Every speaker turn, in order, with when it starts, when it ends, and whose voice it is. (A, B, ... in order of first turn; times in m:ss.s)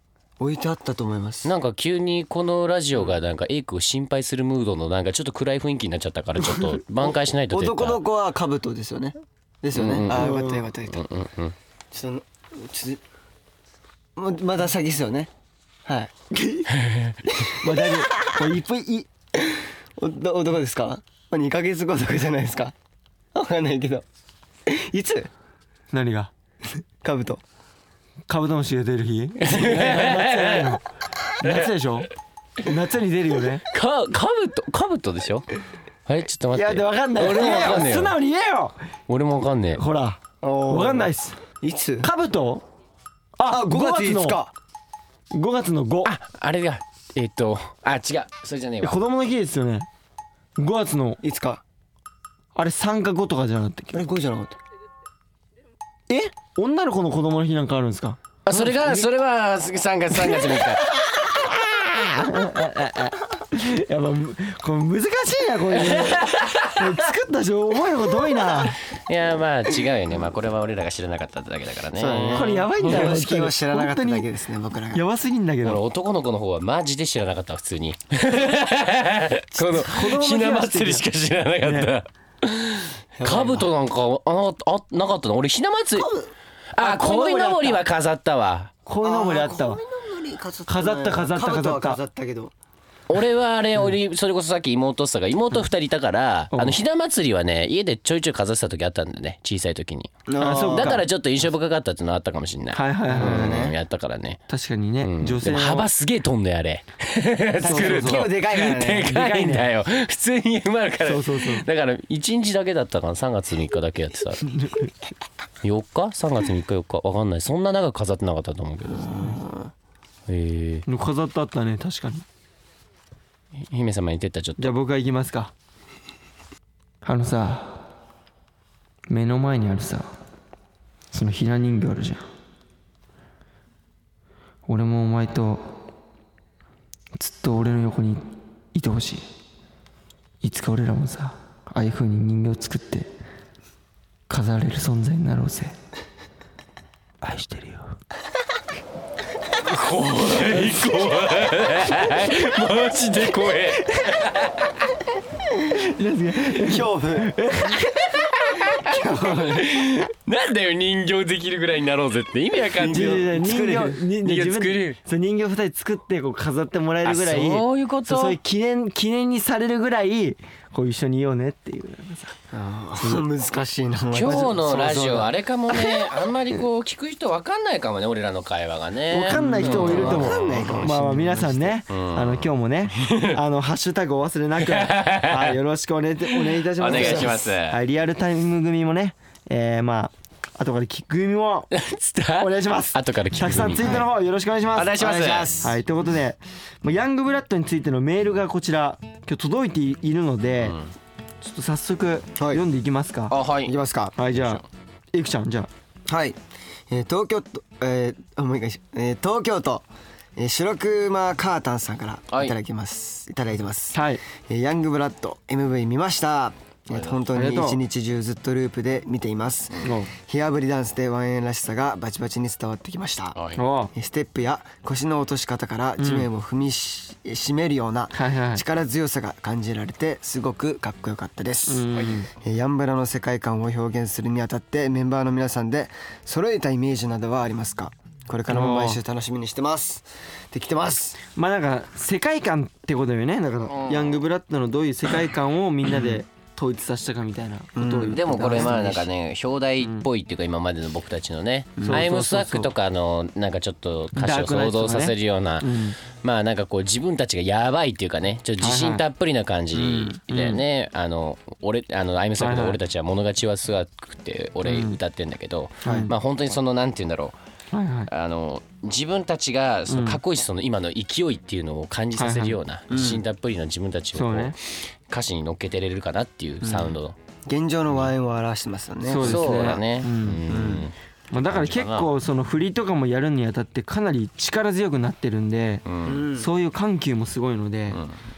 0:00.4-0:01.5 A
0:01.4-0:08.0 B
0:07.0-0:11.0 A
0:09.7-0:10.3 B
0:10.1-0:10.7 C
0:10.9-0:11.5 B
0:11.9-0:13.0 A
0:14.2-0:15.3 A
0:15.8-0:16.1 A
0:16.3-0:16.7 C
0:17.4-0:19.1 C
0:17.6-0:18.2 A
0:19.4-0:22.7 A
0:23.3-0:24.0 A
0:24.7-0:25.3 A
0:25.9-0:26.3 C
0:27.0-0:27.4 A
0:28.3-0:30.8 C
0:29.4-0:30.8 B
0:31.4-0:32.1 C
0:32.6-0:33.6 C
0:33.7-0:35.5 B
0:36.0-0:38.2 B
0:36.5-0:38.8 C
0:37.2-0:37.9 A
0:39.1-0:39.8 B
0:39.7-0:41.4 C
0:40.4-0:42.1 A
0:42.0-0:42.6 C
0:43.4-0:44.4 C
0:43.4-0:44.5 A
0:45.3-0:46.1 C
0:46.0-0:49.0 B
0:48.8-0:49.9 C
0:50.6-0:51.2 C
0:51.2-0:51.6 A
0:52.5-0:54.0 C
0:53.9-0:54.6 A
0:56.1-0:58.2 C
0:58.4-1:00.9 B
1:02.0-1:08.8 C
1:05.8-1:06.8 B
1:08.9-1:13.1 B
1:12.0-1:15.0 A
1:12.3-1:14.2 C
1:14.9-1:15.8 C
1:15.6-1:26.1 B
1:19.6-1:19.8 A
1:19.8-1:21.0 C
1:21.6-1:21.9 C
1:23.2-1:23.7 A
1:26.0-1:27.8 A
1:26.7-1:28.7 B
1:28.8-1:29.8 C
1:29.0-1:32.5 A
1:30.7-1:32.0 C
1:33.1-1:44.4 B
1:36.5-1:36.8 C
1:40.3-1:41.0 A
1:40.4-1:41.0 C
1:42.7-1:43.7 C
1:43.1-1:43.8 A
1:44.5-1:45.9 C
1:45.0-1:54.4 B
1:47.6-1:48.3 C
1:47.6-1:49.1 A
1:49.0-1:49.7 C
1:51.0-1:51.6 C
1:54.5-1:54.9 C
1:55.6-1:59.4 B
1:58.9-1:59.7 A
2:00.3-2:00.8 B
2:00.9-2:02.2 C
2:03.6-2:04.7 B
2:04.6-2:05.5 C
2:07.0-2:07.8 C
2:09.1-2:10.1 C
2:11.1-2:12.2 C
2:14.7-2:15.7 C
2:17.2-2:19.2 C
2:20.4-2:23.1 C
2:24.3-2:25.7 C
2:27.2-2:27.9 C
2:29.6-2:34.9 B
2:30.5-2:30.8 C
2:33.8-2:34.2 C
2:35.7-2:38.3 C
2:36.6-2:37.3 A
2:38.5-2:43.4 B
2:38.8-2:39.6 A
2:42.8-2:44.0 A
2:42.8-2:52.3 C
2:44.2-2:45.0 B
2:47.0-2:48.4 B
2:52.5-2:56.1 A
2:54.1-3:01.0 B
2:59.1-3:11.7 C
2:59.3-3:01.7 A
3:01.9-3:02.4 B
3:03.0-3:03.4 B
3:04.6-3:05.6 B
3:06.3-3:07.5 A
3:06.4-3:07.8 B
3:11.7-3:14.0 B
3:12.4-3:20.8 C
3:13.7-3:14.0 A
3:14.7-3:15.8 B
3:15.2-3:15.5 A
3:20.6-3:20.9 B
3:21.4-3:23.4 C
3:22.4-3:22.6 A
3:23.3-3:23.8 B
3:23.6-3:24.1 A
3:24.2-3:25.7 C
3:24.3-3:24.6 B
3:26.1-3:26.4 A
3:26.9-3:29.8 A
3:30.4-3:43.4 A
3:33.9-3:34.2 C
3:37.3-3:37.8 C
3:39.8-3:40.1 C
3:43.3-3:43.6 B
3:43.6-3:43.9 C
3:43.9-4:01.2 A
3:46.0-3:46.3 C
3:48.1-3:48.6 C
3:51.7-3:52.3 C
3:58.5-3:59.0 C
4:01.3-4:08.7 C
4:03.7-4:04.2 B
4:07.8-4:09.1 A
4:08.1-4:27.4 B
4:11.8-4:12.0 A
4:11.8-4:12.7 C
4:14.1-4:16.0 C
4:18.6-4:19.0 C
4:19.7-4:20.2 A
4:20.3-4:20.6 C
4:22.4-4:22.8 C
4:24.6-4:25.0 C
4:25.8-4:26.1 C
4:25.8-4:26.1 A
4:27.7-4:28.1 C
4:28.1-4:37.2 B
4:29.9-4:30.2 C
4:32.2-4:32.6 C
4:32.9-4:33.2 A
4:34.1-4:34.5 C
4:36.6-4:36.9 A
4:37.5-4:39.8 A
4:39.0-4:40.4 C
4:39.1-4:40.9 B
4:40.5-4:40.9 A
4:41.3-4:45.8 C
4:41.5-4:42.1 B
4:45.8-4:46.2 B
4:46.0-4:46.5 A
4:46.3-4:48.0 C